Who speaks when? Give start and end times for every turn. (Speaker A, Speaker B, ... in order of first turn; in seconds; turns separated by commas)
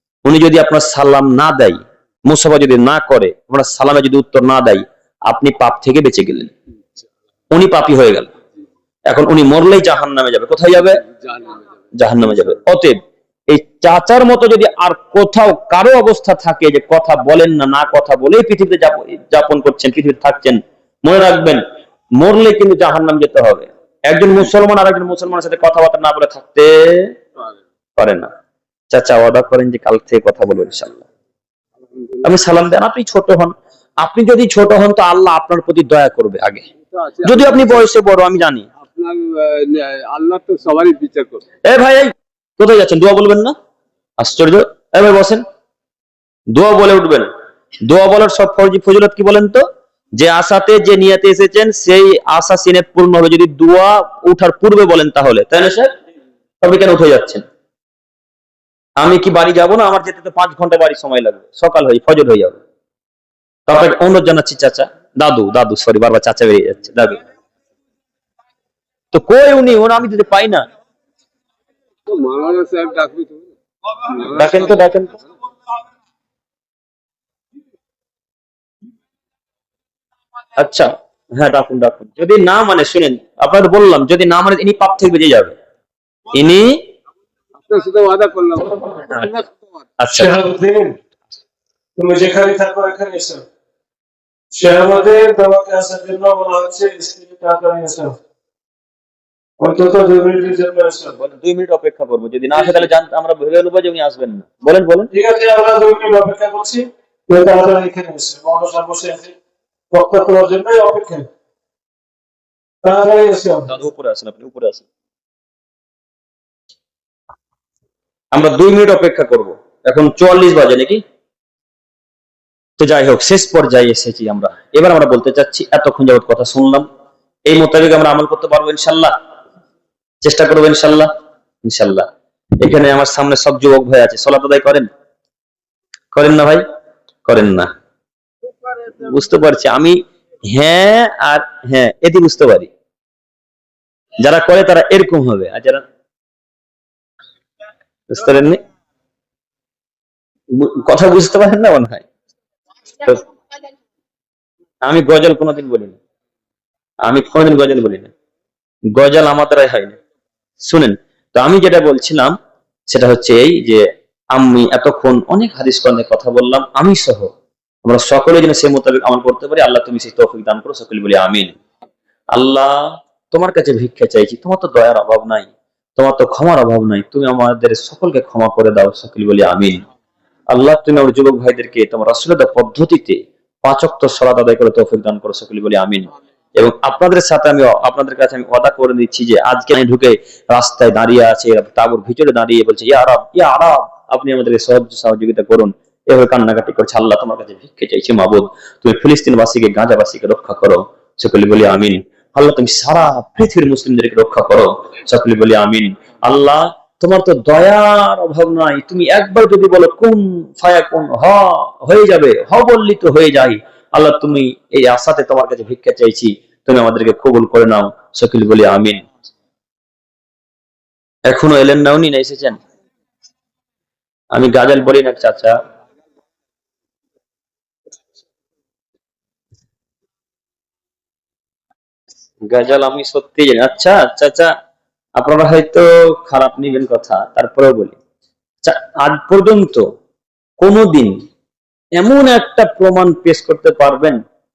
Speaker A: 0.2-6.5, Speaker A: 7.5-8.3, Speaker A: 9.1-11.0, Speaker B: 10.9-11.7, Speaker A: 11.9-21.6, Speaker A: 22.1-27.1, Speaker A: 28.0-28.3, Speaker A: 28.9-31.0, Speaker A: 32.2-36.6, Speaker B: 36.9-37.9, Speaker A: 37.2-38.7, Speaker B: 38.8-41.4, Speaker A: 41.6-43.5, Speaker A: 44.2-45.4, Speaker A: 46.5-47.3, Speaker A: 47.9-49.6, Speaker A: 50.2-55.9, Speaker A: 56.6-57.4, Speaker A: 59.0-62.6, Speaker A: 63.7-67.2, Speaker A: 69.1-70.6, Speaker B: 72.0-73.5, Speaker B: 74.0-74.9, Speaker A: 74.3-75.2, Speaker A: 80.5-85.5, Speaker A: 86.3-86.8, Speaker B: 87.6-89.7, Speaker A: 90.0-90.3, Speaker C: 90.1-91.0, Speaker C: 92.0-93.4, Speaker C: 94.5-98.2, Speaker C: 99.6-101.2, Speaker A: 101.1-105.1, Speaker C: 105.1-109.3, Speaker C: 109.9-111.3, Speaker C: 112.8-113.7, Speaker A: 113.7-114.8, Speaker A: 118.3-121.0, Speaker A: 122.8-126.8, Speaker A: 127.5-129.1, Speaker A: 130.2-131.1, Speaker A: 131.7-132.1, Speaker A: 132.6-134.9, Speaker A: 136.1-136.6, Speaker A: 137.2-137.7, Speaker A: 138.9-140.0, Speaker A: 140.5-142.7, Speaker A: 144.2-145.8, Speaker A: 148.1-148.6, Speaker A: 150.5-152.0, Speaker A: 154.8-155.9, Speaker A: 157.0-158.1, Speaker A: 158.9-159.9, Speaker A: 160.6-162.3, Speaker A: 162.9-167.3, Speaker A: 167.8-171.5, Speaker A: 172.3-179.8, Speaker A: 180.5-219.0, Speaker A: 221.3-222.6, Speaker A: 224.3-225.6, Speaker A: 232.4-234.5, Speaker A: 235.2-238.0, Speaker A: 238.6-239.8, Speaker A: 240.6-241.1, Speaker A: 241.9-244.2